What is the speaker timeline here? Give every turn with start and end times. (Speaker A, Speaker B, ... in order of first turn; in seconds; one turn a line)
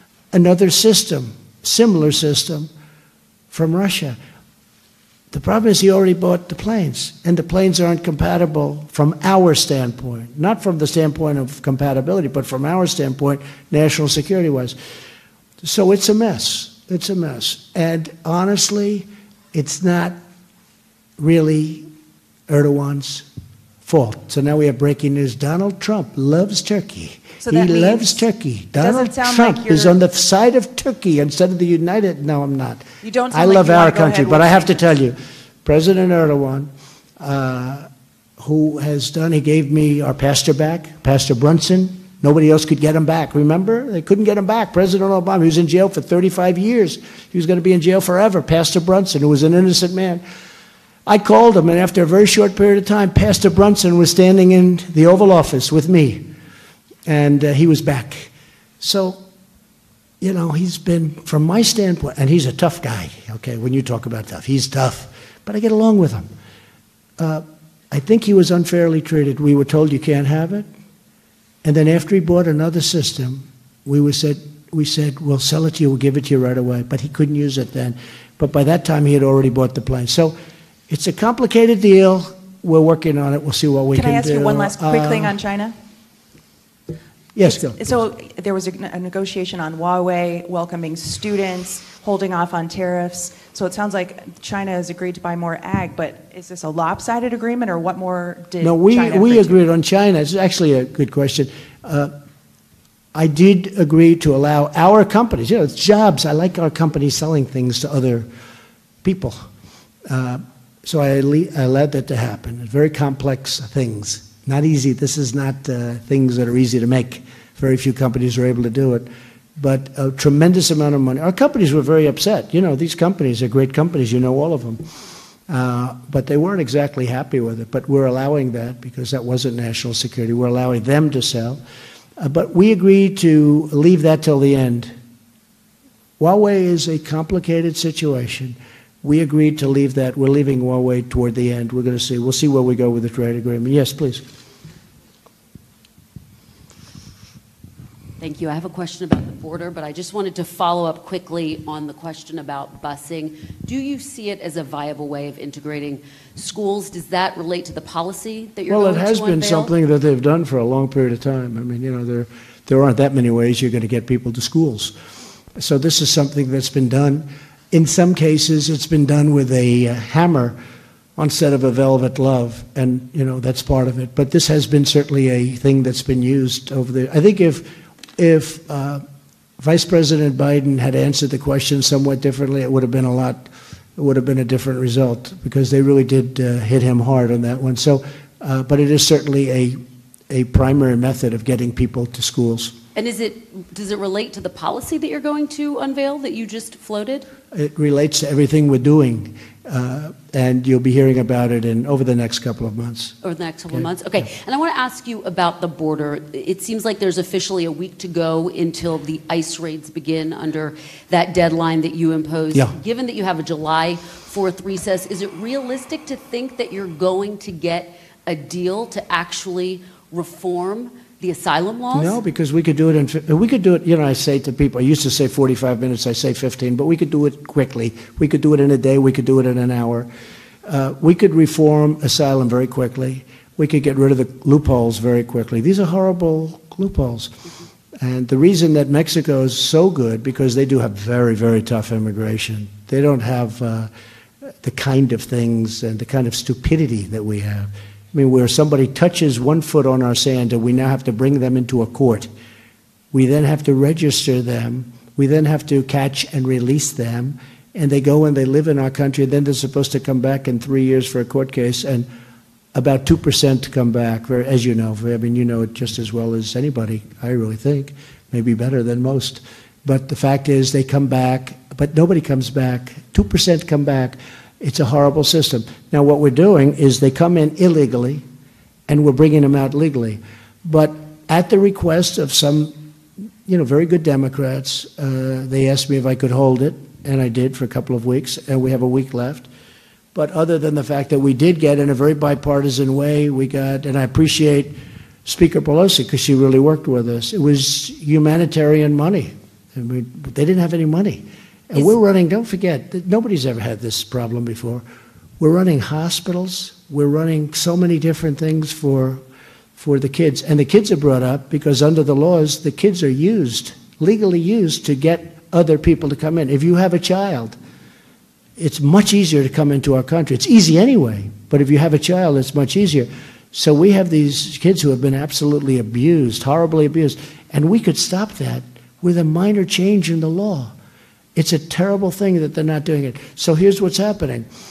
Speaker A: 0.3-2.7
Speaker A: 3.5-4.2
Speaker A: 5.3-14.8
Speaker A: 15.6-20.2
Speaker A: 21.2-21.9
Speaker A: 22.5-23.2
Speaker A: 23.8-37.9
Speaker B: 27.4-30.0
Speaker B: 33.0-34.8
Speaker A: 38.4-50.2
Speaker A: 51.0-56.3
Speaker A: 57.0-59.2
Speaker A: 60.2-66.3
Speaker A: 67.2-70.7
Speaker A: 71.6-80.3
Speaker A: 80.9-85.4
Speaker B: 83.9-85.8
Speaker A: 87.3-87.9
Speaker B: 87.4-99.6
Speaker A: 98.6-102.1
Speaker A: 103.1-108.3
Speaker A: 109.0-109.5
Speaker A: 110.1-124.8
Speaker A: 125.5-131.6
Speaker A: 132.2-134.9
Speaker A: 136.2-144.2
Speaker C: 148.2-159.7
Speaker A: 158.7-164.9
Speaker A: 165.6-170.6
Speaker A: 171.2-179.0
Speaker A: 179.6-192.7
Speaker C: 192.9-197.3
Speaker A: 197.5-203.1
Speaker C: 203.2-222.2
Speaker A: 221.9-230.1
Speaker A: 230.7-237.3
Speaker A: 238.0-243.9
Speaker A: 244.6-252.3
Speaker A: 253.1-262.1
Speaker A: 262.7-278.2
Speaker A: 278.9-282.8
Speaker A: 283.4-289.5
Speaker A: 290.1-304.8
Speaker A: 305.4-309.2
Speaker A: 309.8-317.6
Speaker A: 318.6-330.7
Speaker A: 331.3-334.5